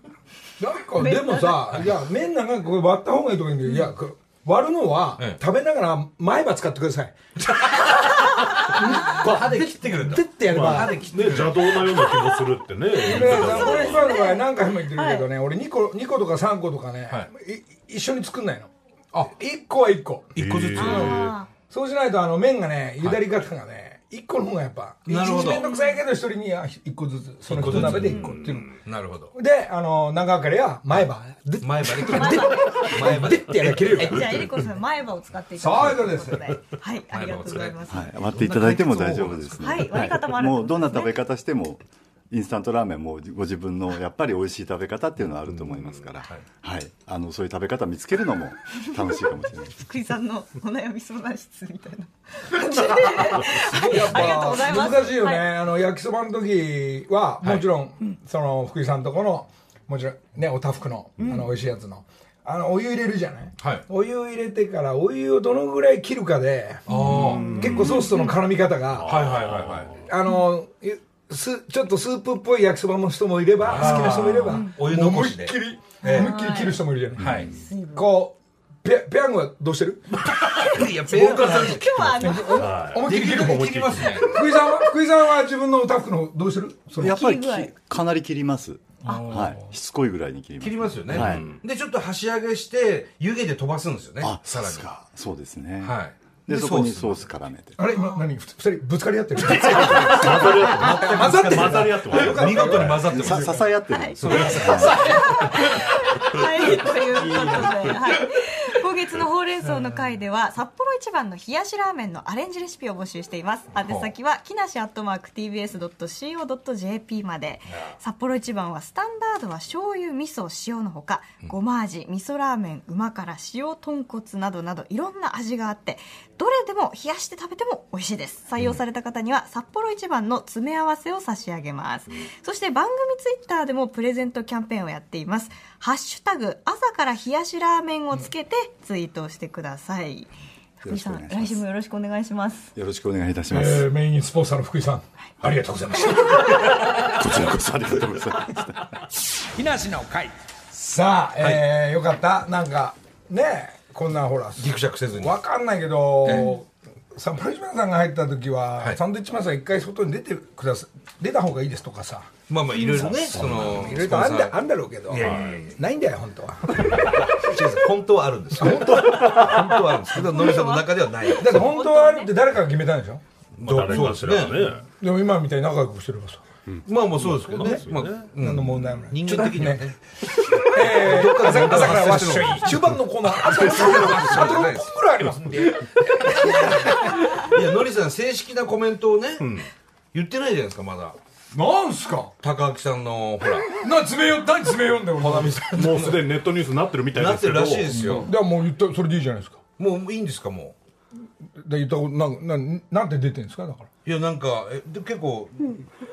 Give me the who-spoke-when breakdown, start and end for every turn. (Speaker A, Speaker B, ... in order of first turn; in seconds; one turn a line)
Speaker A: 0.6-8.0
Speaker B: 1.0-1.8
Speaker A: 8.5-11.0
Speaker C: 9.0-12.0
Speaker D: 10.4-14.1
Speaker A: 13.0-21.1
Speaker B: 13.1-15.3
Speaker C: 13.2-13.5
Speaker C: 20.3-21.3
Speaker D: 20.4-21.4
Speaker B: 20.8-21.5
Speaker A: 21.7-28.7
Speaker C: 25.1-25.7
Speaker B: 25.2-26.0
Speaker C: 27.5-29.3
Speaker D: 27.6-28.8
Speaker B: 27.9-28.4
Speaker A: 29.3-34.4
Speaker C: 31.6-34.6
Speaker B: 32.0-38.3
Speaker A: 35.6-36.5
Speaker C: 37.1-40.1
Speaker E: 37.9-49.8
Speaker B: 39.6-41.2
Speaker B: 49.7-55.5
Speaker A: 52.5-69.2
Speaker C: 53.2-55.1
Speaker B: 61.2-61.5
Speaker C: 66.9-68.0
Speaker B: 66.9-68.4
Speaker D: 67.0-68.2
Speaker D: 68.9-70.1
Speaker C: 69.0-70.0
Speaker A: 70.0-77.3
Speaker C: 73.6-76.3
Speaker D: 73.6-74.1
Speaker B: 73.8-74.7
Speaker B: 76.0-76.8
Speaker C: 77.2-77.5
Speaker D: 77.2-77.6
Speaker B: 77.5-78.1
Speaker A: 77.9-87.2
Speaker C: 80.5-84.4
Speaker B: 80.8-82.8
Speaker D: 82.5-84.3
Speaker E: 87.0-91.5
Speaker B: 87.0-87.7
Speaker A: 89.0-89.7
Speaker C: 90.6-94.9
Speaker D: 91.1-91.6
Speaker E: 94.2-97.7
Speaker C: 95.8-97.2
Speaker A: 97.8-103.7
Speaker D: 99.4-103.3
Speaker C: 99.5-105.2
Speaker E: 103.0-105.0
Speaker B: 103.9-142.7
Speaker A: 104.3-105.7
Speaker A: 107.2-107.7
Speaker C: 113.8-114.1
Speaker E: 140.8-141.6
Speaker E: 142.7-143.9
Speaker A: 143.5-146.9
Speaker E: 146.9-148.9
Speaker A: 149.5-162.3
Speaker C: 154.6-155.4
Speaker C: 156.2-156.5
Speaker C: 162.5-164.6
Speaker B: 162.7-163.1
Speaker A: 163.0-167.1
Speaker D: 163.3-163.7
Speaker C: 165.1-165.7
Speaker D: 165.2-165.7
Speaker C: 167.2-171.7
Speaker A: 168.6-169.8
Speaker B: 170.1-172.3
Speaker A: 171.4-173.2
Speaker D: 173.6-174.8
Speaker C: 173.6-174.8
Speaker A: 175.0-176.4
Speaker D: 176.7-178.3
Speaker C: 176.8-185.0
Speaker A: 177.6-177.8
Speaker A: 178.4-179.9
Speaker A: 180.4-187.5
Speaker C: 186.5-189.5
Speaker D: 189.4-189.7
Speaker C: 190.1-191.2
Speaker A: 191.5-192.3
Speaker C: 192.4-193.7
Speaker A: 193.7-196.1
Speaker C: 195.2-196.2
Speaker D: 195.7-198.3
Speaker C: 197.1-198.3
Speaker A: 197.9-199.6
Speaker C: 199.8-200.7
Speaker A: 201.6-203.9
Speaker C: 204.0-205.9